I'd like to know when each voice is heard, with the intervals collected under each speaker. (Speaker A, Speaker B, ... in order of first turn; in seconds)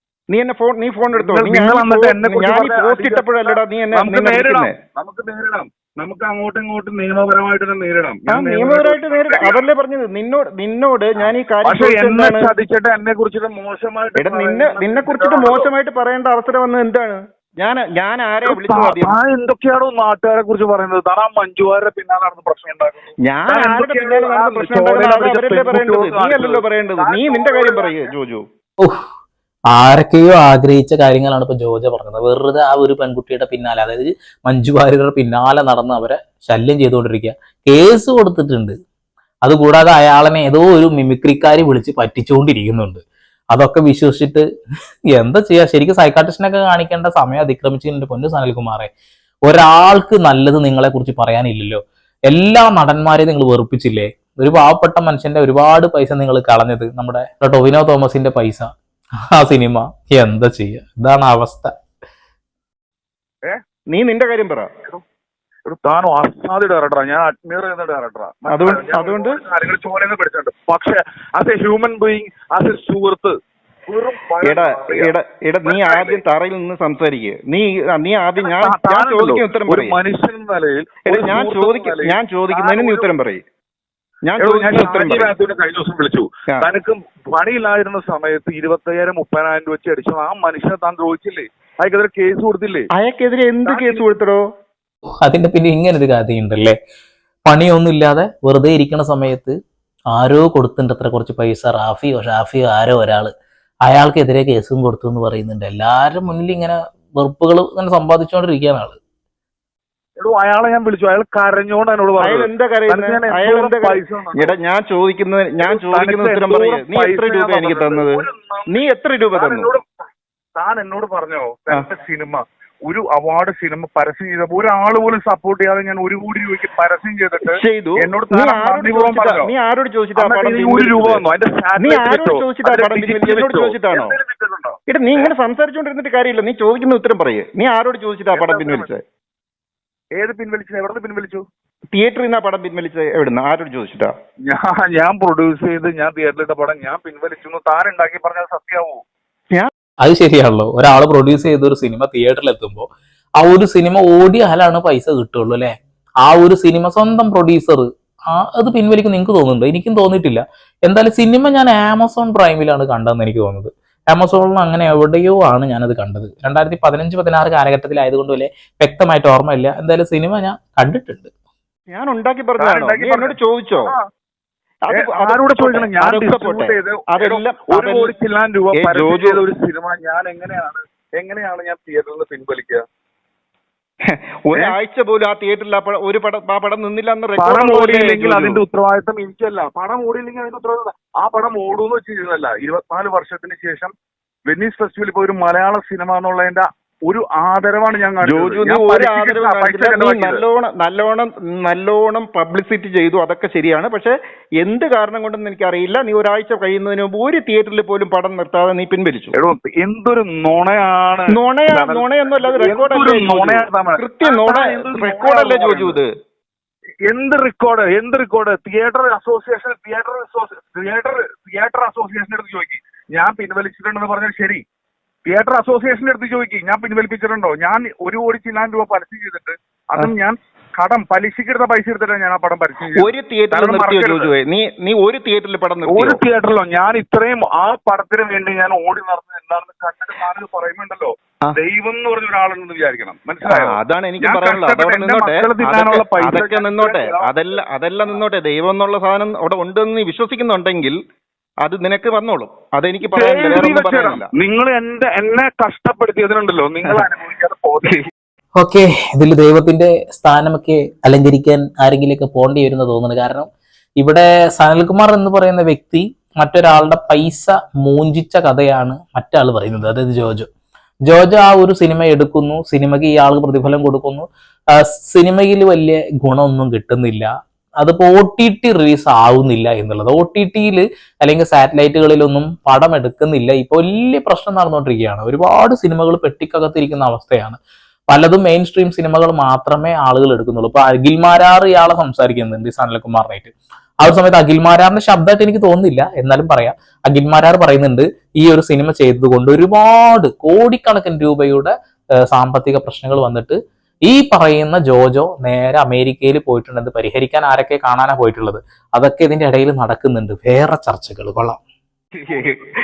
Speaker A: 0.3-4.7, 8.3-12.5, 14.2-19.1, 23.2-28.4, 63.9-64.7, 68.5-69.4, 74.4-80.0, 81.0-83.4, 84.2-85.3, 93.0-94.4, 112.2-119.7, 127.5-131.2, 131.8-134.1, 134.9-139.0, 141.9-144.1, 171.9-173.9, 174.9-178.1, 178.7-179.4, 184.1-188.6, 198.2-209.3, 211.3-216.1, 232.9-236.2, 243.4-251.0, 251.6-254.3, 312.2-312.6
Speaker B: 1.1-9.7, 11.6-15.7, 18.4-28.1, 65.7-73.3, 73.9-76.2, 78.4-83.1, 84.4-92.9, 93.7-94.0, 110.2-114.5, 115.6-119.8, 120.6-129.5, 130.2-135.3, 138.3-138.9, 140.2-141.4, 144.5-149.0, 172.6-174.0, 174.9-182.8, 187.4-193.9, 194.5-200.4, 209.3-216.0, 217.1-224.6, 225.2-234.3, 235.8-247.3, 253.0-258.0
Speaker C: 29.7-38.7, 39.5-43.0, 43.5-44.4, 45.1-48.9, 49.5-58.7, 59.3-61.7, 95.2-96.8, 97.5-99.5, 100.1-103.3, 103.8-109.0, 150.0-152.8, 153.4-171.3, 258.6-263.5, 264.0-270.5, 271.1-287.6, 288.1-311.6